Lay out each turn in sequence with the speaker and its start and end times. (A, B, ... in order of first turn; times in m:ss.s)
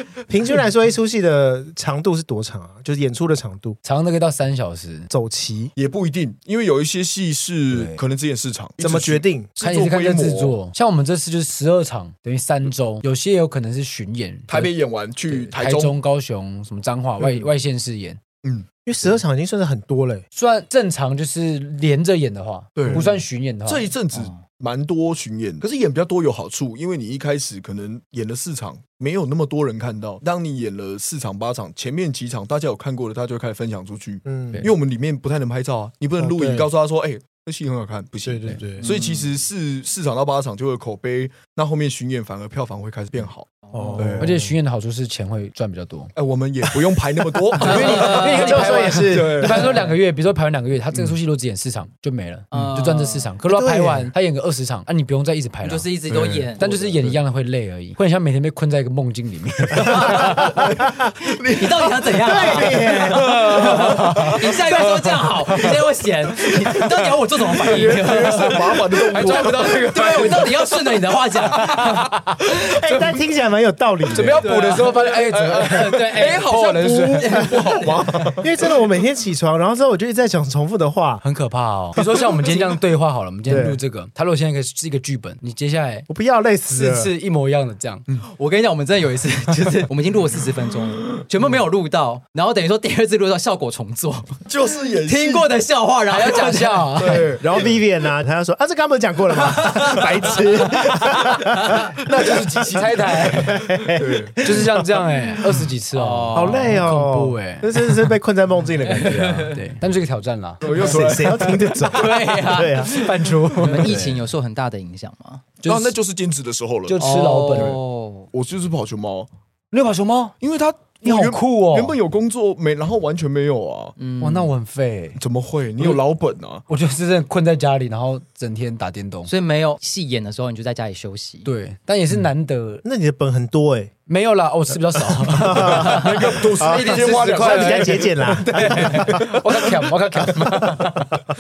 0:00.3-0:03.8 A
0:03.8-0:05.1 B
0:05.1-0:05.7 A
0:05.8-0:10.6 C
0:07.7-0:08.0 B
0:08.8-0:09.5 A
0:09.6-0:14.7 B
0:14.5-0:16.0 C
0:15.3-0:18.2 B
0:17.2-0:17.5 C
0:18.4-0:19.2 C
0:18.9-0:20.2 A
0:20.3-0:23.9 B
0:22.8-0:44.3 C
0:24.1-0:24.4 D
0:34.3-0:34.6 A
0:36.2-0:36.7 A
0:38.2-0:38.9 A
0:38.8-0:39.3 D
0:43.6-0:44.2 D
0:43.7-0:44.5 A
0:44.2-0:46.1 B
0:46.2-0:49.9 C
0:47.6-0:56.0 B
0:47.6-0:48.7 D
0:47.6-0:49.8 A
0:52.5-0:53.3 D
0:53.5-0:54.1 A
0:55.6-0:57.1 D
0:56.1-0:57.2 C
0:56.6-1:00.5 B
0:59.8-1:10.5 C
0:59.9-1:01.1 A
0:59.9-1:00.6 D
1:01.5-1:12.2 D
1:02.2-1:03.5 A
1:03.2-1:04.3 B
1:09.1-1:12.4 B
1:12.7-1:14.4 A
1:14.1-1:17.7 B
1:14.2-1:18.8 C
1:14.4-1:17.9 D
1:18.3-1:21.2 A
1:21.2-1:26.1 B
1:22.0-1:22.8 C
1:23.5-1:23.8 A
1:26.1-1:27.1 A
1:26.7-1:28.0 B
1:28.2-1:34.4 D
1:34.5-1:35.6 C
1:35.0-1:37.3 D
1:36.1-1:37.3 B
1:37.0-1:37.8 C
1:37.4-1:42.0 A
1:39.4-1:41.9 D
1:42.0-1:43.6 B
1:43.3-1:45.0 A
1:43.6-1:44.5 C
1:44.4-1:48.1 B
1:45.9-1:46.8 D
1:46.3-1:49.6 A
1:48.8-1:49.6 D
1:49.1-1:50.8 B
1:50.6-1:52.3 C
1:50.7-1:53.1 A
1:51.7-1:55.5 D
1:52.8-1:54.2 B
1:55.6-1:55.9 B
1:55.6-1:57.8 C
1:56.9-1:57.8 B
1:57.0-1:58.3 D
1:58.3-1:59.3 C
1:59.7-2:00.4 B
2:00.4-2:04.0 C
2:01.0-2:02.0 B
2:04.0-2:04.5 D
2:04.2-2:05.2 B
2:05.2-2:06.6 C
2:06.7-2:09.3 B
2:09.3-2:11.5 D
2:11.4-2:12.8 B
2:12.8-2:13.9 A
2:14.1-2:21.2 B
2:15.2-2:19.2 A
2:15.5-2:19.7 C